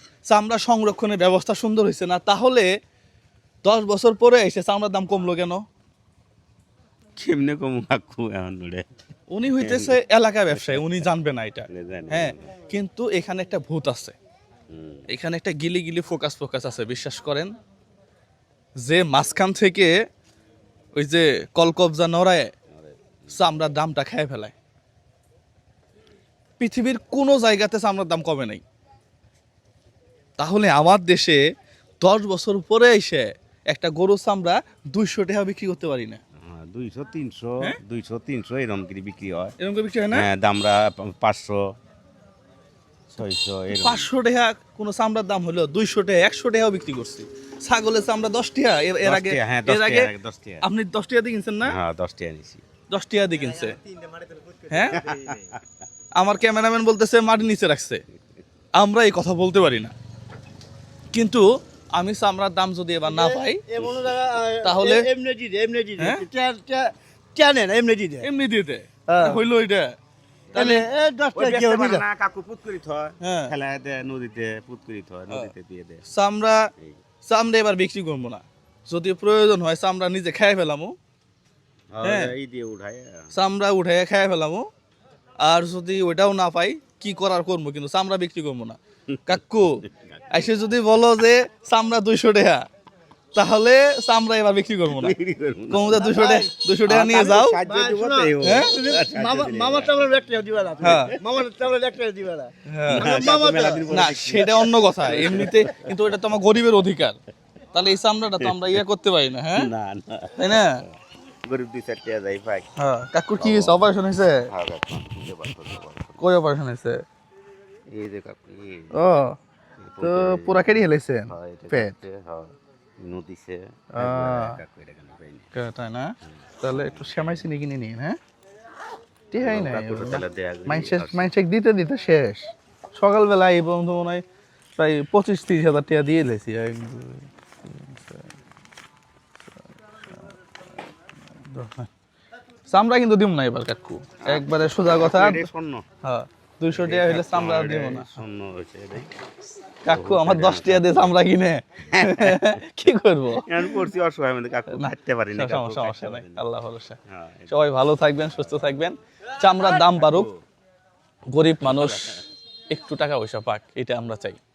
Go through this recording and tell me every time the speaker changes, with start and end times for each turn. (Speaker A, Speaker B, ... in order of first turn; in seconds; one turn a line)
Speaker A: 0.2-2.7
Speaker A: 3.6-5.6
Speaker B: 7.2-8.8
Speaker A: 9.3-14.1
Speaker B: 9.6-10.0
Speaker B: 10.5-11.0
Speaker B: 11.7-12.5
Speaker B: 14.7-15.1
Speaker A: 15.1-17.5
Speaker A: 18.8-19.9
Speaker A: 20.9-22.5
Speaker B: 22.7-23.4
Speaker A: 23.3-24.5
Speaker A: 26.6-28.6
Speaker A: 30.4-31.4
Speaker A: 32.0-36.2
Speaker B: 36.4-39.5
Speaker A: 39.6-40.3
Speaker B: 40.1-41.6
Speaker B: 43.1-44.1
Speaker A: 43.7-51.8
Speaker B: 49.0-50.6
Speaker B: 51.6-52.6
Speaker A: 52.9-53.8
Speaker A: 54.7-55.0
Speaker B: 54.9-55.6
Speaker A: 56.1-58.0
Speaker A: 58.8-59.9
Speaker A: 61.1-63.6
Speaker C: 63.0-68.3
Speaker A: 64.6-65.1
Speaker A: 66.0-66.2
Speaker A: 68.2-70.0
Speaker C: 69.1-69.4
Speaker B: 70.5-70.8
Speaker C: 70.5-72.0
Speaker A: 70.5-70.8
Speaker B: 71.3-76.0
Speaker A: 73.2-73.5
Speaker A: 76.1-76.7
Speaker A: 77.2-80.9
Speaker B: 81.9-83.3
Speaker A: 82.0-82.3
Speaker A: 83.3-84.7
Speaker A: 85.4-89.8
Speaker B: 89.9-90.2
Speaker A: 90.3-92.7
Speaker A: 93.3-95.1
Speaker B: 94.9-100.1
Speaker A: 95.7-97.6
Speaker C: 96.0-96.5
Speaker C: 97.6-104.0
Speaker A: 98.4-98.7
Speaker B: 100.8-101.1
Speaker A: 100.8-101.1
Speaker A: 102.7-103.1
Speaker B: 102.9-106.0
Speaker A: 103.9-107.2
Speaker A: 107.7-109.7
Speaker B: 108.4-108.8
Speaker B: 109.5-110.9
Speaker A: 110.4-110.8
Speaker B: 111.4-112.7
Speaker A: 112.8-114.5
Speaker B: 113.4-114.0
Speaker B: 114.5-116.2
Speaker A: 116.2-117.0
Speaker B: 117.9-119.0
Speaker A: 118.9-119.4
Speaker B: 119.8-125.5
Speaker A: 120.0-122.0
Speaker A: 124.0-124.6
Speaker A: 125.5-128.2
Speaker B: 126.2-127.5
Speaker A: 129.3-134.2
Speaker B: 129.4-131.3
Speaker A: 134.8-138.3
Speaker A: 141.4-141.9
Speaker A: 142.7-145.4
Speaker B: 144.2-145.8
Speaker A: 146.0-148.2
Speaker B: 146.7-149.1
Speaker A: 149.8-153.9
Speaker B: 149.8-151.1
Speaker B: 151.9-152.6
Speaker B: 153.3-156.4
Speaker A: 154.7-157.0
Speaker B: 157.1-158.9
Speaker A: 157.5-160.3
Speaker B: 159.8-160.4
Speaker A: 161.3-162.2
Speaker B: 161.6-162.2
Speaker A: 162.7-164.4